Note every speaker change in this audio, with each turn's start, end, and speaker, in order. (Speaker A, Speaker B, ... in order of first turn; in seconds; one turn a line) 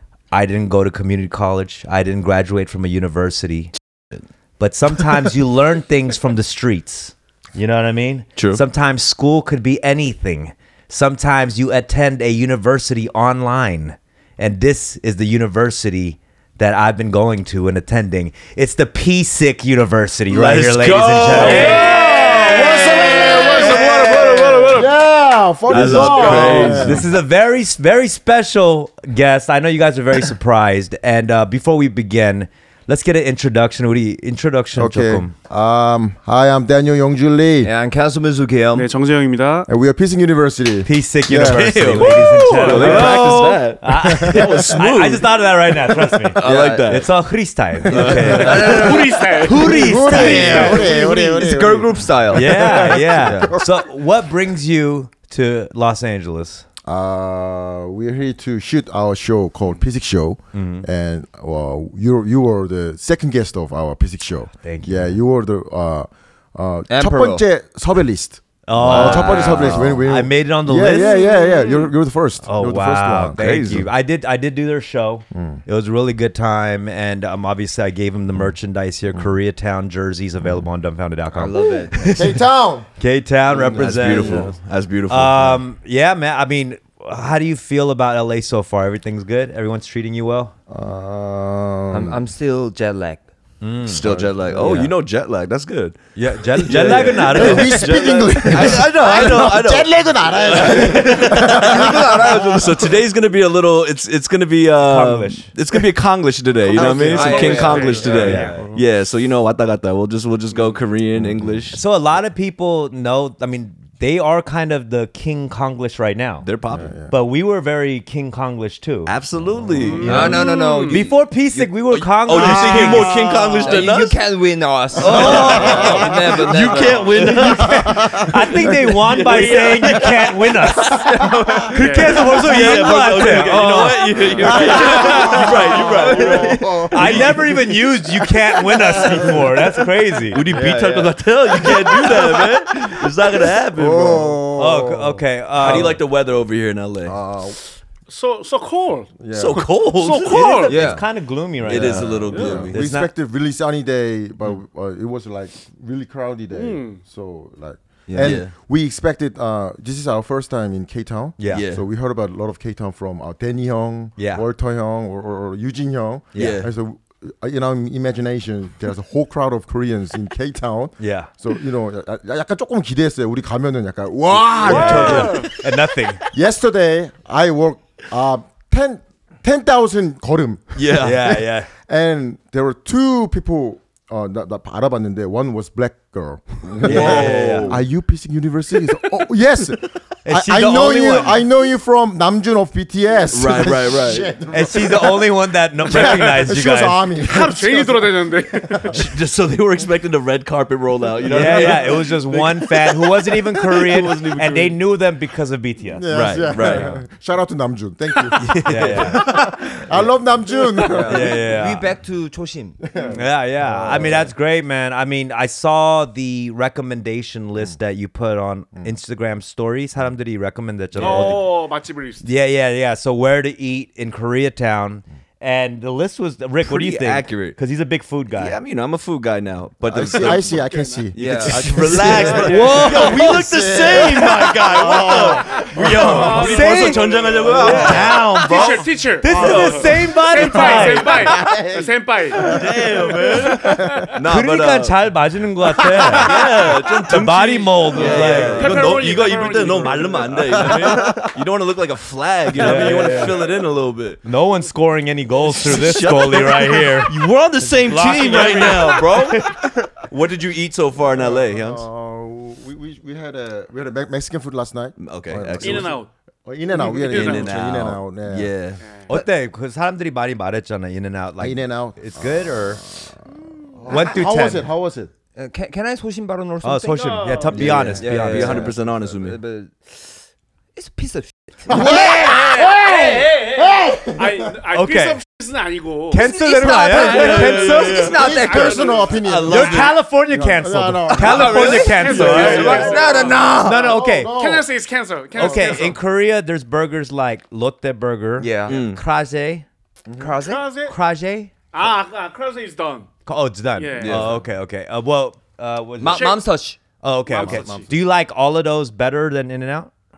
Speaker A: 0.3-3.7
Speaker A: 4.6-21.9
Speaker B: 8.3-8.6
Speaker B: 20.3-22.2
Speaker C: 21.3-25.0
Speaker D: 21.6-27.1
Speaker B: 23.9-24.6
Speaker B: 25.7-27.1
Speaker A: 25.7-35.3
Speaker C: 25.9-26.9
Speaker D: 34.7-37.7
Speaker E: 37.6-38.9
Speaker C: 38.7-39.7
Speaker D: 39.7-42.1
Speaker A: 40.9-50.9
Speaker B: 41.3-45.3
Speaker C: 42.4-43.4
Speaker E: 42.7-43.4
Speaker D: 44.0-44.7
Speaker B: 46.3-47.1
Speaker E: 46.4-47.0
Speaker B: 47.9-48.9
Speaker E: 47.9-53.5
Speaker C: 48.3-50.8
Speaker D: 49.6-53.8
Speaker A: 52.3-56.6
Speaker D: 56.8-73.5
Speaker A: 60.5-60.9
Speaker A: 64.6-65.2
Speaker E: 66.9-67.4
Speaker A: 68.7-71.2
Speaker E: 68.8-70.0
Speaker C: 71.2-71.9
Speaker A: 72.4-82.4
Speaker B: 73.3-73.9
Speaker D: 75.3-75.6
Speaker E: 81.3-82.2
Speaker D: 82.1-82.9
Speaker A: 83.0-84.5
Speaker D: 83.5-84.5
Speaker B: 83.7-85.6
Speaker E: 84.2-84.5
Speaker A: 85.1-90.5
Speaker D: 90.7-92.2
Speaker E: 91.9-93.3
Speaker A: 93.6-94.0
Speaker B: 93.9-96.0
Speaker D: 93.9-94.8
Speaker E: 94.6-94.9
Speaker A: 94.6-94.9
Speaker A: 96.2-98.1
Speaker D: 96.6-102.9
Speaker B: 96.6-111.8
Speaker E: 96.8-99.6
Speaker E: 100.5-103.0
Speaker A: 104.8-105.5
Speaker C: 106.7-108.5
Speaker E: 106.7-108.7
Speaker A: 108.0-108.5
Speaker D: 108.1-108.8
Speaker D: 111.2-111.6
Speaker A: 111.7-116.5
Speaker B: 116.4-116.9
Speaker D: 116.7-117.1
Speaker A: 117.1-119.1
Speaker B: 119.0-120.5
Speaker D: 119.6-120.1
Speaker C: 119.8-121.0
Speaker A: 119.9-123.9
Speaker E: 120.0-121.7
Speaker B: 121.9-124.2
Speaker E: 122.3-127.4
Speaker B: 125.0-131.0
Speaker A: 125.0-125.9
Speaker D: 125.2-128.8
Speaker A: 127.1-131.0
Speaker C: 129.2-130.0
Speaker E: 130.8-131.9
Speaker D: 131.2-131.5
Speaker A: 131.7-135.5
Speaker C: 131.7-132.3
Speaker B: 132.2-137.6
Speaker E: 133.8-136.7
Speaker D: 134.3-139.7
Speaker A: 136.8-140.4
Speaker B: 140.3-144.4
Speaker E: 140.3-142.5
Speaker D: 143.7-146.0
Speaker A: 144.5-146.0
Speaker B: 145.6-147.2
Speaker D: 147.0-147.6
Speaker C: 148.1-149.2
Speaker D: 149.2-149.7
Speaker B: 149.3-150.9
Speaker C: 149.9-150.9
Speaker E: 150.7-151.0
Speaker A: 150.7-153.1
Speaker B: 151.7-152.8
Speaker D: 151.7-175.5
Speaker E: 151.7-152.0
Speaker C: 152.3-152.6
Speaker C: 156.5-157.0
Speaker E: 158.1-158.4
Speaker B: 158.2-158.5
Speaker A: 161.4-161.7
Speaker B: 161.5-161.8
Speaker A: 164.2-164.4
Speaker A: 166.3-166.7
Speaker B: 166.3-166.7
Speaker A: 171.0-171.3
Speaker A: 174.6-176.2
Speaker C: 174.6-175.5
Speaker B: 174.7-175.3
Speaker D: 176.3-195.3
Speaker B: 180.8-181.3
Speaker A: 181.0-181.7
Speaker B: 186.8-187.8
Speaker A: 186.8-187.8
Speaker A: 190.2-191.4
Speaker B: 193.3-194.3
Speaker A: 194.5-197.0
Speaker D: 195.9-199.0
Speaker C: 195.9-196.4
Speaker C: 197.2-199.0
Speaker B: 198.9-204.8
Speaker A: 201.2-206.8
Speaker D: 201.4-201.8
Speaker D: 205.9-211.4
Speaker B: 206.1-206.9
Speaker E: 206.5-206.9
Speaker B: 208.3-209.3
Speaker A: 208.6-209.7
Speaker E: 210.8-212.8
Speaker A: 211.0-211.9
Speaker D: 212.8-214.3
Speaker A: 213.1-221.5
Speaker C: 220.9-222.3
Speaker D: 221.0-221.3
Speaker A: 222.2-228.6
Speaker B: 226.6-227.6
Speaker B: 228.3-230.6
Speaker D: 229.9-236.8
Speaker C: 230.5-231.1
Speaker B: 231.1-238.7
Speaker E: 231.2-232.5
Speaker A: 231.9-234.2
Speaker C: 232.3-232.8
Speaker C: 235.5-242.6
Speaker A: 236.2-241.3
Speaker B: 239.3-239.9
Speaker D: 239.3-239.8
Speaker D: 240.4-244.1
Speaker B: 242.3-244.9
Speaker C: 243.5-244.2
Speaker A: 244.2-246.4
Speaker D: 245.8-246.6
Speaker B: 246.1-254.2
Speaker A: 247.1-248.9
Speaker C: 248.0-250.8
Speaker D: 250.5-251.3
Speaker A: 250.6-251.0
Speaker A: 252.6-253.4
Speaker D: 252.7-253.4
Speaker A: 254.2-259.8
Speaker B: 255.4-261.8
Speaker C: 258.3-259.0
Speaker D: 261.0-268.5
Speaker B: 265.0-265.9
Speaker C: 265.6-266.1
Speaker C: 266.7-267.7
Speaker B: 267.0-268.8
Speaker A: 269.1-272.8
Speaker D: 271.4-273.2
Speaker D: 273.7-275.1
Speaker A: 273.9-274.7
Speaker E: 275.4-280.2
Speaker A: 276.6-278.7
Speaker C: 276.9-277.8
Speaker B: 277.5-279.4
Speaker D: 278.4-278.7
Speaker E: 280.7-282.4
Speaker D: 281.7-284.6
Speaker A: 281.7-282.3
Speaker C: 281.9-286.3
Speaker A: 284.7-285.2
Speaker A: 286.1-287.9
Speaker E: 286.2-289.0
Speaker C: 286.9-289.2
Speaker B: 286.9-288.4
Speaker D: 287.9-294.7
Speaker B: 289.1-289.9
Speaker A: 289.4-293.0
Speaker E: 291.1-294.0
Speaker C: 291.2-296.0
Speaker B: 292.2-292.9
Speaker A: 293.5-294.4
Speaker A: 295.3-299.6
Speaker D: 295.4-295.9
Speaker E: 298.4-298.9
Speaker B: 298.7-299.0
Speaker D: 300.1-300.4
Speaker E: 300.2-300.7
Speaker C: 300.4-300.9
Speaker A: 300.8-301.5
Speaker C: 301.7-303.1
Speaker A: 303.2-306.4
Speaker C: 303.8-304.4
Speaker B: 303.9-304.3
Speaker E: 306.0-306.8
Speaker C: 306.1-306.5
Speaker A: 307.0-309.9
Speaker C: 307.3-307.9
Speaker D: 307.4-307.9